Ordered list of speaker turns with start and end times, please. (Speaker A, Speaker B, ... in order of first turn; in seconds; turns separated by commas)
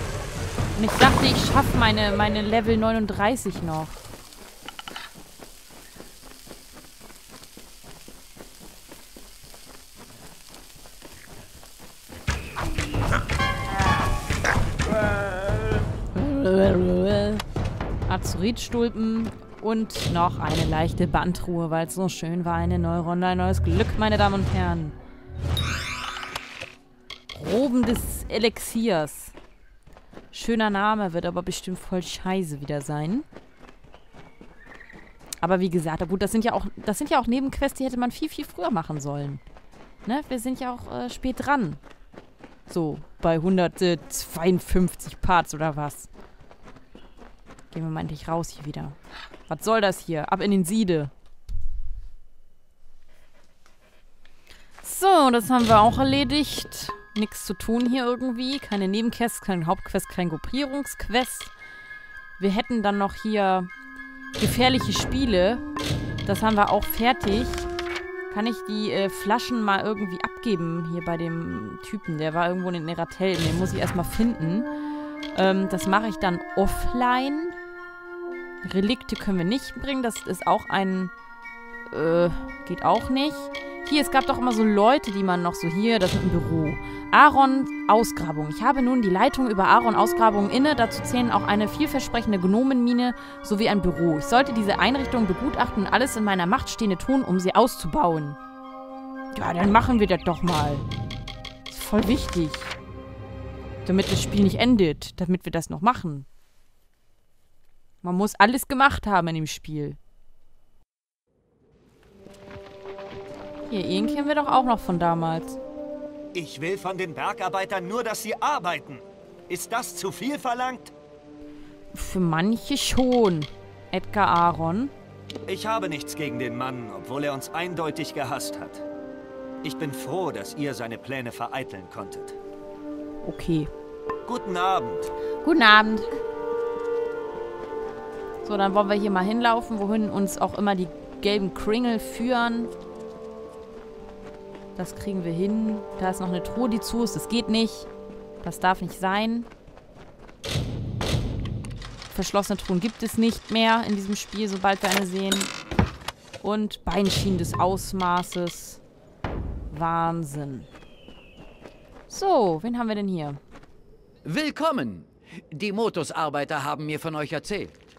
Speaker A: 0.7-4.0, Speaker A: 16.1-17.4, Speaker A: 18.1-24.9, Speaker A: 27.3-29.3, Speaker A: 30.3-33.2, Speaker A: 35.4-39.4, Speaker A: 40.0-41.8, Speaker A: 42.7-46.1, Speaker A: 47.7-51.1, Speaker A: 54.8-61.5, Speaker A: 62.4-63.7, Speaker A: 64.4-65.6, Speaker A: 66.2-67.7, Speaker A: 68.3-74.7, Speaker A: 75.3-77.5, Speaker A: 78.6-81.1, Speaker A: 81.9-98.4, Speaker A: 99.3-100.8, Speaker A: 101.7-102.7, Speaker A: 103.8-106.2, Speaker A: 108.0-110.0, Speaker A: 113.7-115.6, Speaker B: 116.3-120.9, Speaker A: 121.9-124.9, Speaker B: 125.5-128.8, Speaker B: 129.6-132.4, Speaker A: 133.2-133.7, Speaker B: 134.2-135.1, Speaker A: 135.4-136.1, Speaker A: 138.4-142.7, Speaker A: 144.8-147.9, Speaker A: 148.4-149.5, Speaker A: 152.1-155.5, Speaker A: 156.4-158.8, Speaker A: 159.7-160.7, Speaker A: 162.1-163.4, Speaker C: 164.2-167.8